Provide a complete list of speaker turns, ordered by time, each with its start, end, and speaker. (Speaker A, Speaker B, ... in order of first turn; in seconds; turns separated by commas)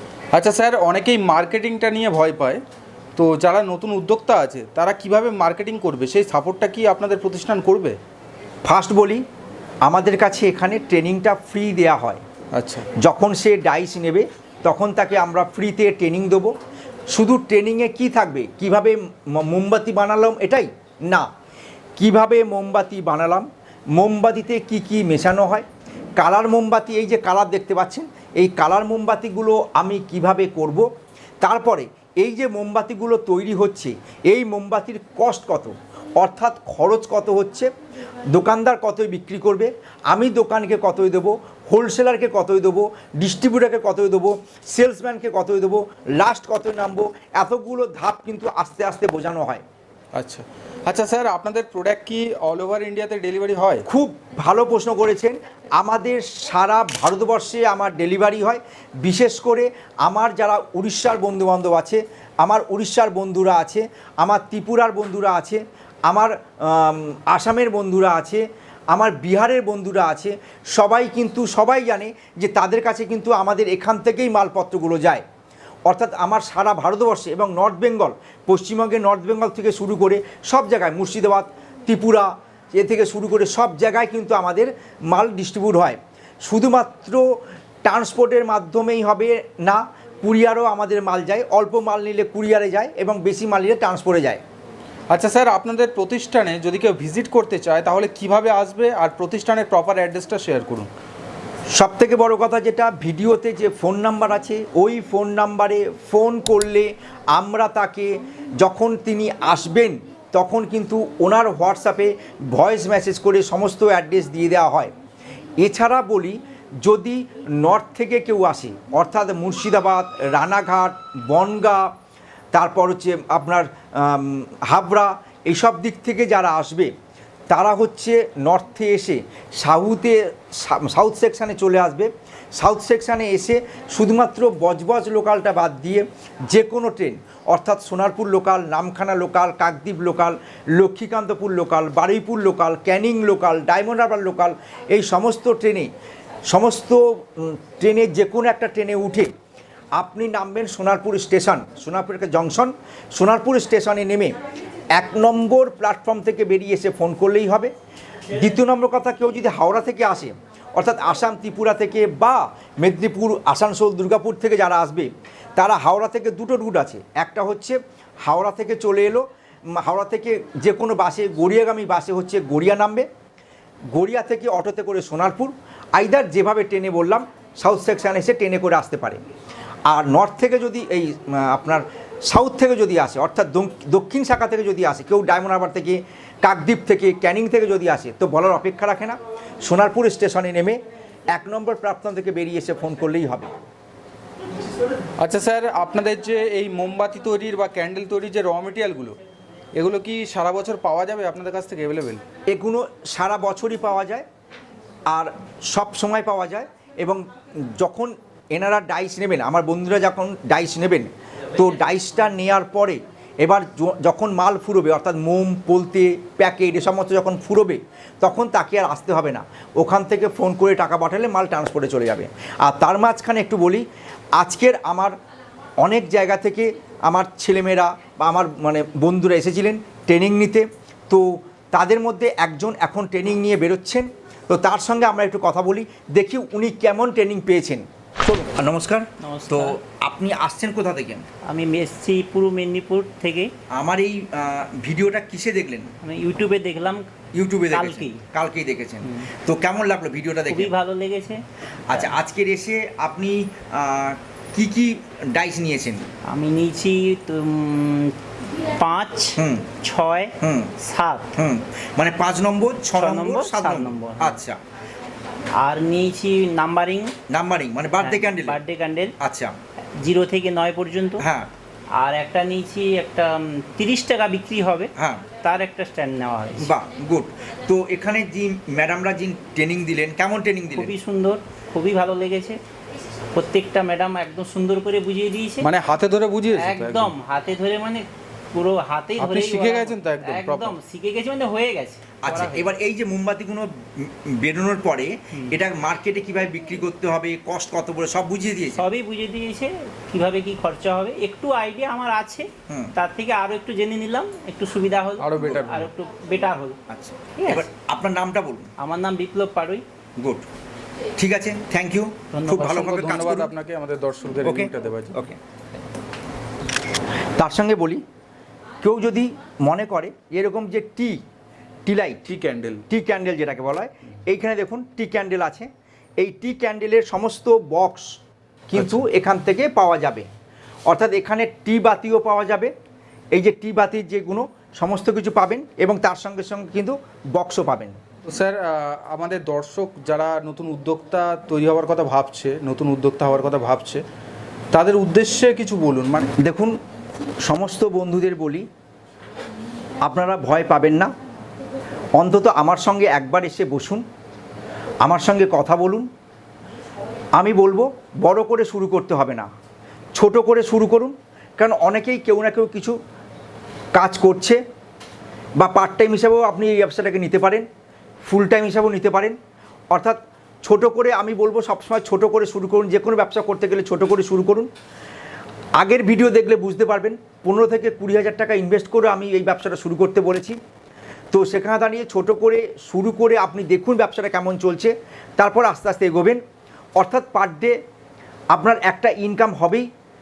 Speaker A: 0.3-2.6, Speaker A: 3.2-8.0, Speaker B: 8.7-9.2, Speaker B: 9.8-12.2, Speaker A: 12.6-12.9, Speaker B: 13.0-16.5, Speaker B: 17.1-21.3, Speaker B: 22.0-30.9, Speaker B: 31.4-37.7, Speaker B: 38.3-49.6, Speaker A: 50.1-53.9, Speaker B: 53.9-75.2, Speaker B: 75.9-87.3, Speaker B: 87.8-94.4, Speaker A: 95.1-100.9, Speaker B: 101.7-115.0, Speaker B: 115.6-121.9, Speaker B: 122.5-126.9, Speaker B: 127.5-145.9, Speaker B: 146.5-149.3, Speaker B: 150.0-154.4, Speaker B: 154.9-157.7, Speaker B: 158.3-173.1, Speaker B: 173.9-179.2, Speaker B: 179.9-193.5, Speaker A: 195.2-199.2, Speaker A: 199.8-202.2, Speaker B: 202.5-204.3, Speaker B: 205.1-223.9, Speaker B: 224.4-225.2, Speaker B: 225.8-241.2, Speaker C: 239.2-239.8, Speaker C: 241.4-243.5, Speaker B: 243.7-245.9, Speaker C: 246.0-247.1, Speaker B: 247.3-250.7, Speaker C: 247.7-248.2, Speaker C: 250.5-252.1, Speaker B: 251.9-256.0, Speaker C: 256.3-261.3, Speaker B: 259.4-259.7, Speaker B: 260.4-260.7, Speaker B: 261.3-264.6, Speaker C: 262.9-264.4, Speaker C: 265.6-267.1, Speaker B: 267.3-268.6, Speaker C: 268.0-269.1, Speaker B: 269.2-269.6, Speaker C: 270.0-271.2, Speaker B: 271.2-271.5, Speaker C: 272.0-276.7, Speaker B: 275.0-275.2, Speaker B: 276.6-280.9, Speaker C: 280.7-282.6, Speaker C: 283.3-285.7, Speaker A: 285.6-287.1, Speaker C: 286.6-292.7, Speaker A: 289.2-290.8, Speaker B: 292.2-298.9, Speaker C: 298.8-306.8, Speaker A: 305.2-305.9, Speaker B: 306.9-308.7, Speaker C: 307.4-307.7, Speaker C: 308.8-309.8, Speaker B: 310.2-310.5, Speaker B: 311.2-313.5, Speaker C: 312.3-312.8, Speaker A: 312.5-315.2, Speaker B: 314.4-315.4, Speaker B: 317.4-318.0, Speaker B: 318.8-321.2, Speaker B: 321.9-322.2, Speaker A: 322.3-322.8, Speaker B: 322.9-330.3, Speaker A: 328.8-329.1, Speaker B: 330.9-332.7, Speaker B: 333.3-338.0, Speaker A: 338.3-344.0, Speaker A: 344.7-346.3, Speaker B: 346.4-346.8, Speaker B: 347.4-348.7, Speaker B: 350.0-351.1, Speaker B: 352.2-354.1, Speaker B: 355.0-356.1, Speaker B: 357.4-359.5, Speaker B: 360.1-363.0, Speaker B: 363.9-364.6, Speaker B: 365.6-367.7, Speaker B: 368.2-369.4, Speaker B: 369.9-374.7, Speaker B: 375.8-380.6, Speaker B: 381.3-386.4, Speaker B: 387.0-387.8, Speaker B: 388.5-389.9